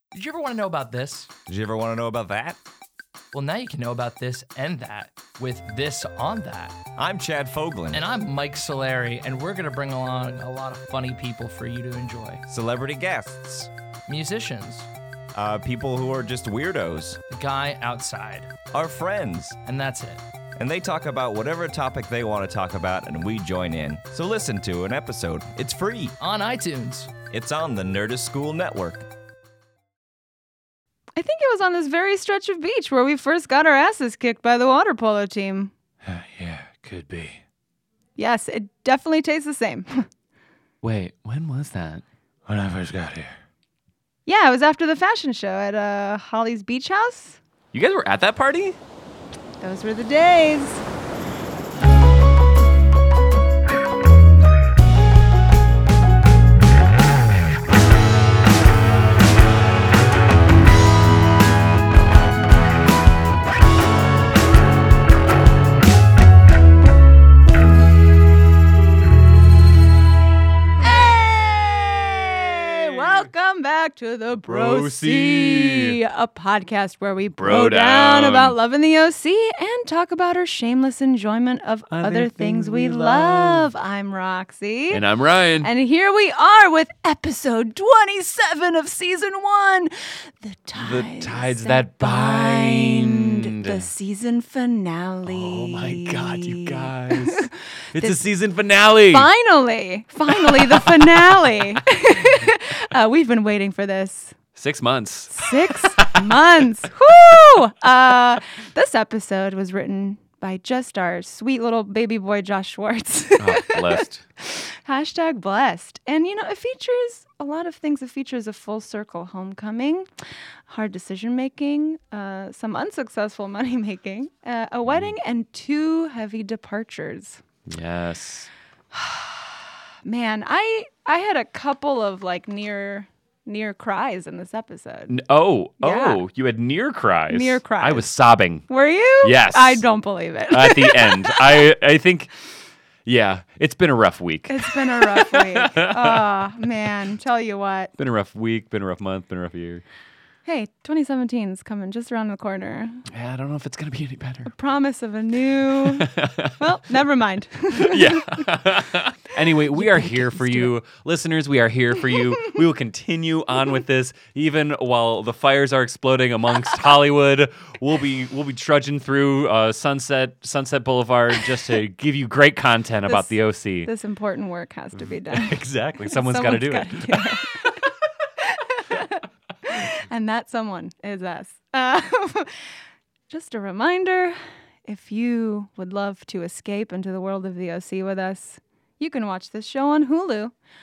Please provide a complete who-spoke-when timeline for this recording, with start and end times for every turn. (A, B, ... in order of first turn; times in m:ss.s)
0:00.1-0:01.3 A
0:01.5-0:02.6 B
0:03.3-0:06.8 A
0:07.0-0:08.0 B
0:07.9-0:12.4 A
0:12.5-0:13.7 B
0:14.1-0:14.9 A
0:15.4-0:17.2 B
0:17.3-0:18.5 A
0:18.7-0:19.6 B
0:19.6-0:20.2 A
0:20.6-0:26.2 B
0:26.2-0:27.1 A
0:27.3-0:29.1 B
0:31.2-0:35.7 C
0:36.0-0:37.4 D
0:38.2-0:40.1 C
0:40.8-0:42.0 E
0:42.5-0:43.4 D
0:44.3-0:47.4 C
0:47.7-0:48.8 E
0:49.6-0:50.8 C
1:10.8-1:11.8 C
1:12.6-1:25.0 C
1:12.9-1:13.3 E
1:14.5-1:16.0 E
1:17.4-1:18.6 E
1:21.9-1:23.7 E
1:24.9-1:25.7 E
1:25.6-1:38.2 C
1:30.8-1:33.8 E
1:35.2-1:39.3 E
1:39.1-1:44.4 C
1:40.3-1:41.2 E
1:44.6-1:46.5 E
1:45.3-2:00.1 C
1:53.4-1:54.2 E
2:00.7-2:07.4 C
2:07.7-2:08.5 E
2:08.9-2:15.2 C
2:15.1-2:18.7 E
2:15.8-2:16.2 C
2:17.3-2:18.1 C
2:18.7-2:21.7 C
2:19.2-2:19.8 E
2:20.5-2:22.5 E
2:23.0-2:26.2 E
2:24.5-2:27.9 C
2:28.0-2:29.8 E
2:30.5-2:33.0 C
2:33.1-2:34.5 E
2:34.5-2:38.5 C
2:35.8-2:36.6 E
2:37.8-2:53.9 E
2:39.7-2:40.8 C
2:53.1-2:55.6 C
2:55.0-2:57.3 E
2:56.1-2:57.8 C
2:58.4-3:02.5 C
3:03.3-3:10.5 C